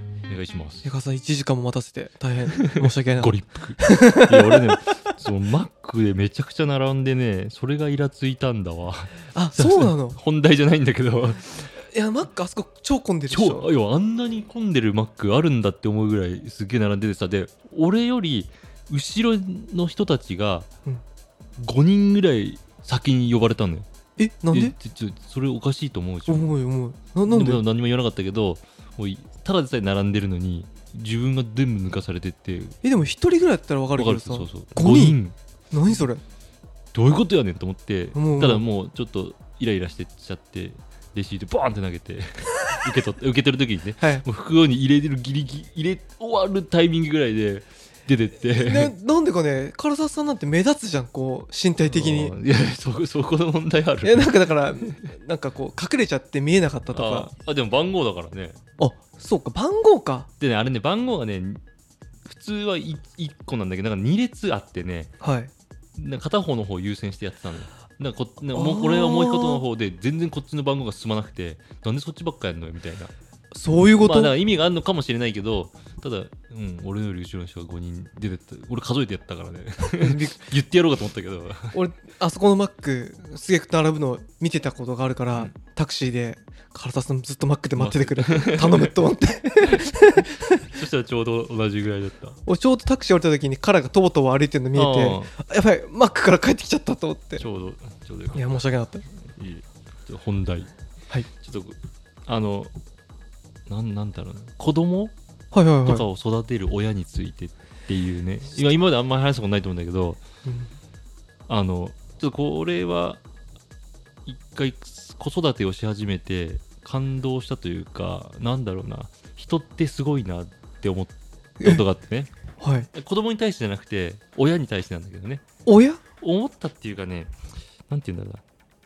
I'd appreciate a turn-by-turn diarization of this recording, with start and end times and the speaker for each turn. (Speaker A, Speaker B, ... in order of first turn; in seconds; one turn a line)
Speaker A: 0.3-0.9
Speaker B: 0.8-4.9
Speaker A: 2.6-11.7
Speaker B: 9.3-10.2
Speaker B: 11.9-13.7
Speaker A: 13.3-20.7
Speaker A: 21.6-23.9
Speaker B: 24.2-24.7
Speaker A: 24.5-26.5
Speaker B: 26.3-27.6
Speaker A: 27.3-32.8
Speaker B: 32.8-35.2
Speaker A: 34.0-35.3
Speaker B: 35.7-36.2
Speaker A: 36.9-48.9
Speaker B: 38.1-38.6
Speaker B: 44.0-44.2
Speaker B: 48.5-52.3
Speaker A: 51.9-54.6
Speaker B: 54.0-57.3
Speaker A: 56.9-58.6
Speaker B: 58.8-60.3
Speaker A: 60.4-61.6
Speaker A: 62.2-65.1
Speaker B: 65.2-65.5
Speaker A: 66.0-73.1
Speaker B: 68.5-69.6
Speaker B: 73.5-74.3
Speaker A: 74.0-81.8
Speaker B: 80.0-80.4
Speaker B: 81.7-90.7
Speaker A: 87.8-88.9
Speaker A: 89.7-92.4
Speaker B: 92.5-97.4
Speaker A: 94.8-95.3
Speaker A: 97.4-98.6
Speaker B: 98.3-99.0
Speaker A: 99.2-100.7
Speaker A: 101.3-102.7
Speaker A: 103.7-105.1
Speaker B: 105.5-106.1
Speaker A: 105.8-110.2
Speaker B: 110.4-110.7
Speaker A: 111.5-113.2
Speaker A: 114.3-122.3
Speaker B: 122.6-122.9
Speaker A: 122.9-125.4
Speaker B: 125.7-126.0
Speaker A: 126.2-127.3
Speaker A: 127.9-128.4